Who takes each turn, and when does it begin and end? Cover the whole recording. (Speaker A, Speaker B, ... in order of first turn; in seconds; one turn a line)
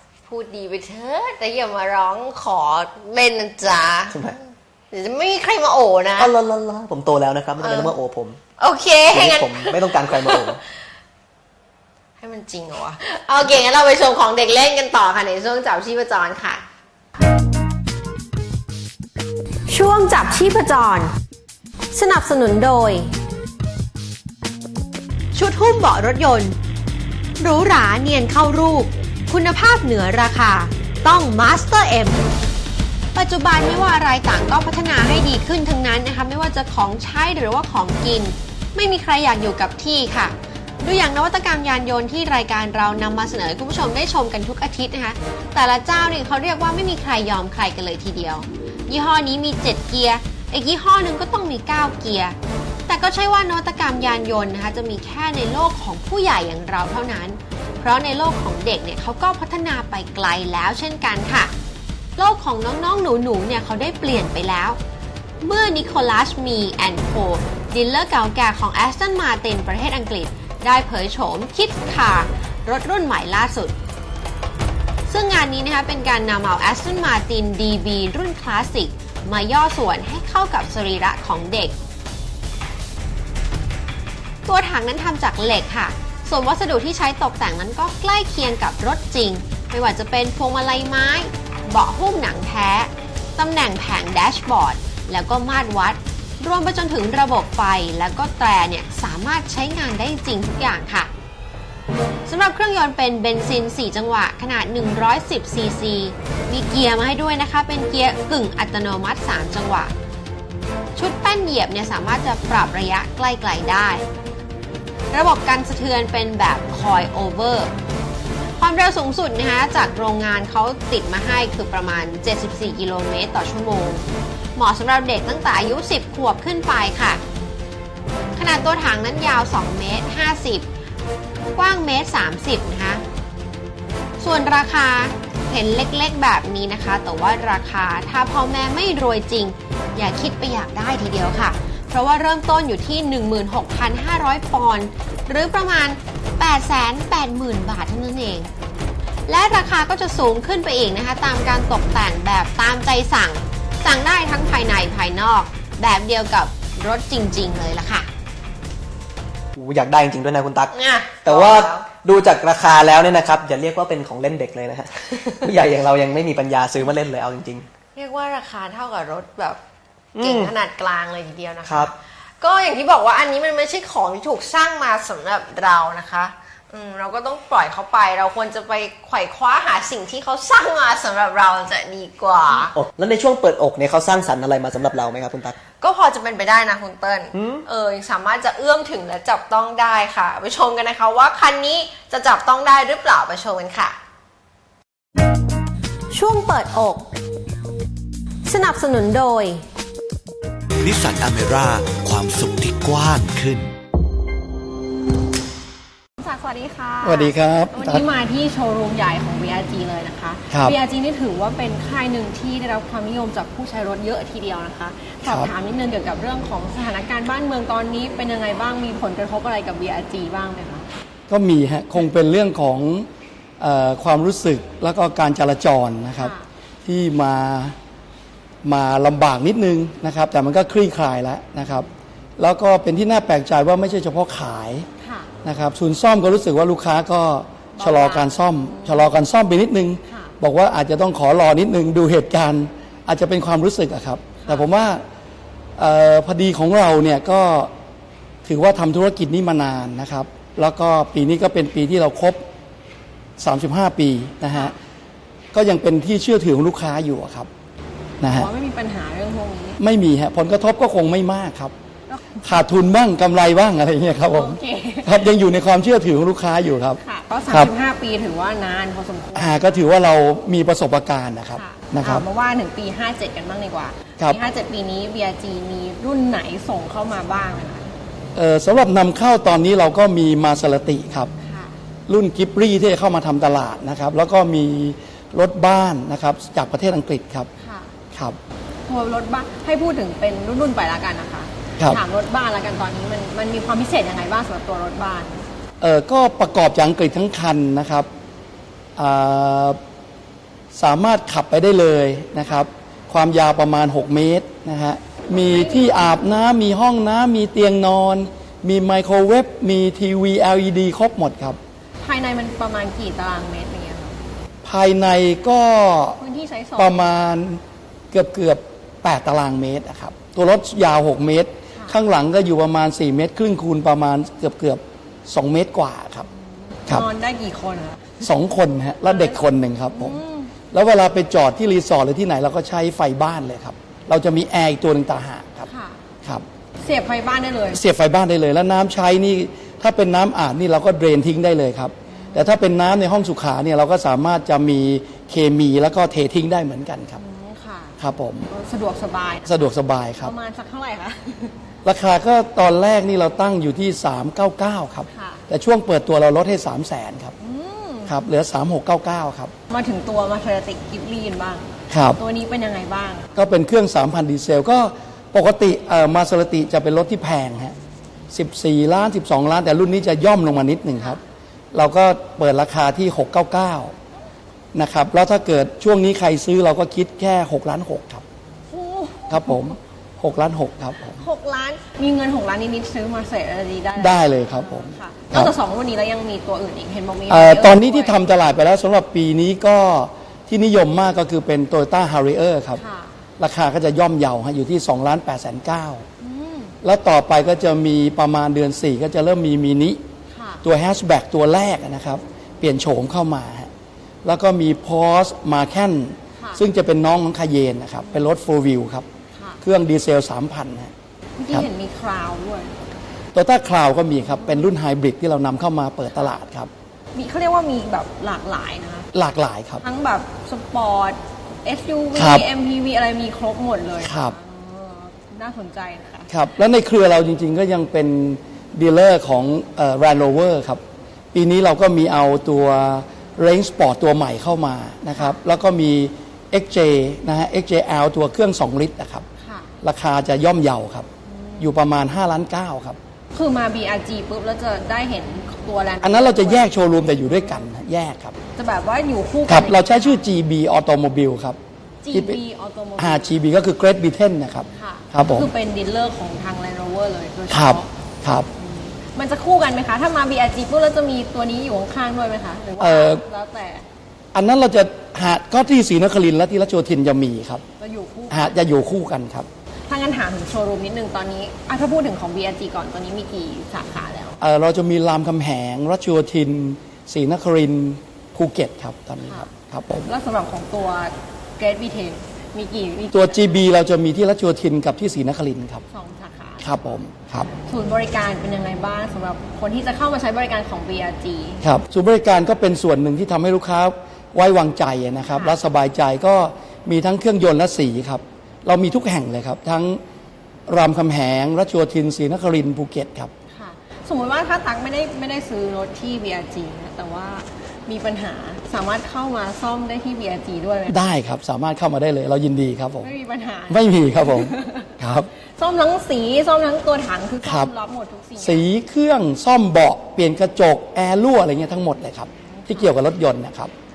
Speaker A: 0.3-4.1
Speaker B: 4.1-4.4
Speaker A: 4.9-6.3
Speaker B: 6.2-8.4
Speaker A: 7.6-7.9
Speaker A: 8.6-10.4
Speaker B: 9.0-10.6
Speaker A: 12.2-16.6
Speaker A: 19.7-21.1
Speaker A: 21.9-23.1
Speaker A: 25.3-26.6
Speaker A: 27.4-32.2
Speaker A: 33.1-52.4
Speaker A: 52.9-61.5
Speaker A: 62.2-64.8
Speaker A: 65.4-73.7
Speaker A: 75.1-81.7
Speaker A: 84.5-101.1
Speaker A: 102.2-109.9
Speaker A: 111.0-114.1
Speaker A: 115.1-117.7
Speaker A: 118.6-127.2
Speaker A: 128.3-130.7
Speaker A: 131.6-133.0
Speaker A: 134.2-148.5
Speaker A: 149.3-158.1
Speaker B: 159.5-167.7
Speaker A: 160.7-161.8
Speaker A: 167.9-169.6
Speaker B: 170.1-170.6
Speaker A: 170.2-182.7
Speaker B: 171.6-171.9
Speaker B: 182.5-185.6
Speaker A: 185.8-187.0
Speaker C: 186.5-187.0
Speaker B: 187.3-187.7
Speaker C: 187.7-190.9
Speaker A: 188.7-190.3
Speaker A: 190.9-193.9
Speaker A: 196.1-197.1
Speaker A: 198.4-199.6
Speaker D: 201.1-203.6
Speaker C: 206.2-220.8
Speaker E: 207.0-208.1
Speaker E: 210.5-210.8
Speaker E: 215.2-215.5
Speaker E: 221.3-223.1
Speaker E: 223.6-227.8
Speaker C: 226.2-226.4
Speaker E: 228.6-234.9
Speaker C: 235.0-235.3
Speaker E: 235.4-245.0
Speaker C: 237.7-239.1
Speaker C: 240.1-240.3
Speaker C: 244.4-244.7
Speaker E: 245.8-247.7
Speaker E: 248.4-252.4
Speaker E: 253.4-254.7
Speaker C: 254.5-254.7
Speaker E: 255.5-257.5
Speaker E: 258.2-258.5
Speaker C: 258.3-259.8
Speaker E: 259.8-261.7
Speaker C: 262.1-262.6
Speaker E: 262.4-267.7
Speaker C: 264.3-265.2
Speaker C: 267.0-269.5
Speaker E: 269.3-272.2
Speaker C: 271.6-277.9
Speaker E: 278.3-281.3
Speaker C: 281.4-281.8
Speaker E: 282.1-287.5
Speaker C: 287.6-287.9
Speaker C: 288.9-295.4
Speaker E: 295.8-298.1
Speaker E: 298.9-299.8
Speaker E: 300.7-311.6
Speaker C: 305.3-306.1
Speaker C: 312.0-314.2
Speaker E: 314.6-316.2
Speaker C: 316.2-317.0
Speaker E: 316.8-326.3
Speaker C: 326.3-328.2
Speaker E: 328.2-330.2
Speaker C: 329.1-330.5
Speaker E: 330.7-335.7
Speaker C: 335.7-336.0
Speaker C: 336.8-337.8
Speaker E: 337.7-347.2
Speaker C: 342.1-342.5
Speaker C: 347.1-349.6
Speaker E: 348.0-348.5
Speaker E: 349.4-350.3
Speaker C: 350.2-351.6
Speaker E: 351.8-357.3
Speaker C: 355.1-355.4
Speaker C: 357.4-358.1
Speaker E: 358.1-359.5
Speaker C: 359.7-363.4
Speaker E: 361.9-362.2
Speaker E: 363.4-367.7
Speaker E: 368.3-371.2
Speaker C: 370.9-371.2
Speaker E: 371.7-373.9
Speaker E: 374.7-378.2
Speaker C: 378.7-379.7
Speaker E: 379.3-381.2
Speaker C: 381.2-388.2
Speaker E: 383.9-385.5
Speaker E: 387.3-392.8
Speaker C: 392.8-393.2
Speaker E: 393.4-396.0
Speaker C: 396.2-396.7
Speaker E: 396.8-400.0
Speaker C: 400.3-400.6
Speaker E: 400.6-403.7
Speaker E: 404.2-409.1
Speaker C: 406.4-406.6
Speaker C: 409.3-409.6
Speaker E: 409.6-410.9
Speaker C: 411.4-412.7
Speaker E: 413.3-416.7
Speaker C: 414.2-414.7
Speaker C: 417.1-419.1
Speaker E: 419.1-419.8
Speaker C: 419.8-426.3
Speaker E: 422.1-422.4
Speaker E: 424.0-424.4
Speaker E: 426.3-430.8
Speaker E: 431.3-439.2
Speaker C: 439.4-439.7
Speaker E: 439.8-441.1
Speaker C: 441.2-441.7
Speaker E: 441.6-443.0
Speaker C: 443.3-447.3
Speaker E: 446.0-448.3
Speaker C: 448.6-450.2
Speaker E: 449.5-451.6
Speaker C: 452.0-453.4
Speaker E: 452.1-452.4
Speaker E: 453.0-455.5
Speaker C: 454.7-457.9
Speaker E: 457.5-458.5
Speaker C: 458.6-463.8
Speaker E: 462.8-463.2
Speaker E: 464.3-467.6
Speaker C: 467.8-468.6
Speaker E: 468.3-469.5
Speaker C: 469.9-474.4
Speaker E: 474.4-480.1
Speaker C: 479.2-479.5
Speaker C: 480.1-483.6
Speaker E: 483.1-485.8
Speaker C: 485.9-486.7
Speaker E: 486.6-487.5
Speaker C: 487.6-491.6
Speaker E: 491.6-500.0
Speaker E: 500.7-503.3
Speaker C: 503.5-510.9
Speaker E: 510.9-513.1
Speaker C: 513.0-514.9
Speaker E: 513.7-515.3
Speaker C: 515.5-518.7
Speaker E: 517.4-517.7
Speaker E: 518.4-523.7
Speaker C: 522.3-522.9